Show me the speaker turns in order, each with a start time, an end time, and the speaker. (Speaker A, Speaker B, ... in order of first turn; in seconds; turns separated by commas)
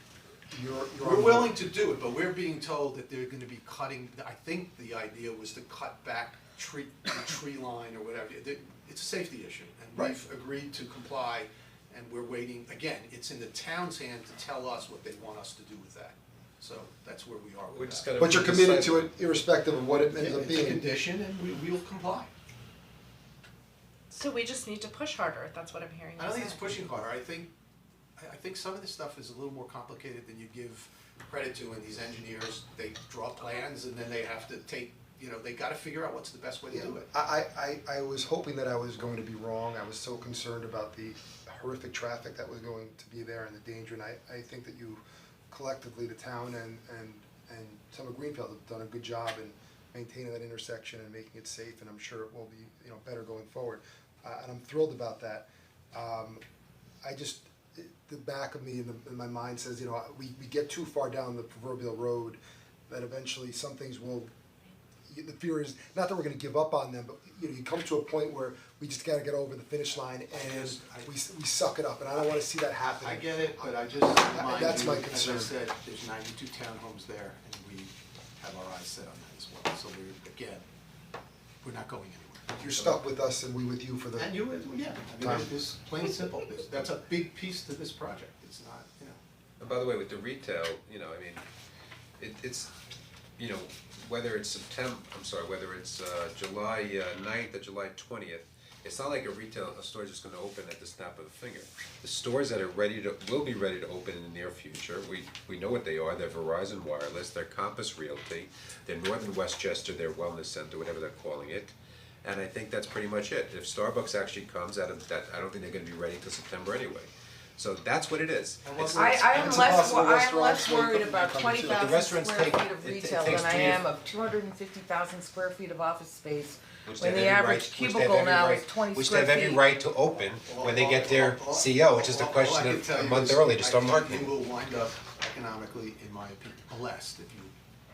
Speaker A: 0.5-1.6, Speaker B: 1.0-18.1, Speaker C: 17.7-19.1, Speaker A: 18.2-20.9, Speaker B: 20.1-22.3, Speaker D: 24.1-26.6, Speaker B: 26.2-27.5, Speaker B: 28.2-37.1, Speaker A: 36.7-56.4, Speaker A: 57.0-64.3, Speaker A: 65.1-75.5, Speaker B: 70.3-71.1, Speaker B: 72.9-80.6, Speaker B: 81.6-82.5, Speaker A: 82.5-84.4, Speaker B: 84.2-89.2, Speaker A: 85.2-85.5, Speaker C: 89.6-91.4, Speaker C: 92.2-92.7, Speaker C: 93.4-119.6, Speaker B: 118.6-120.0, Speaker E: 118.9-129.7, Speaker A: 119.4-122.0, Speaker C: 121.7-123.8, Speaker C: 126.8-134.3, Speaker B: 130.4-137.5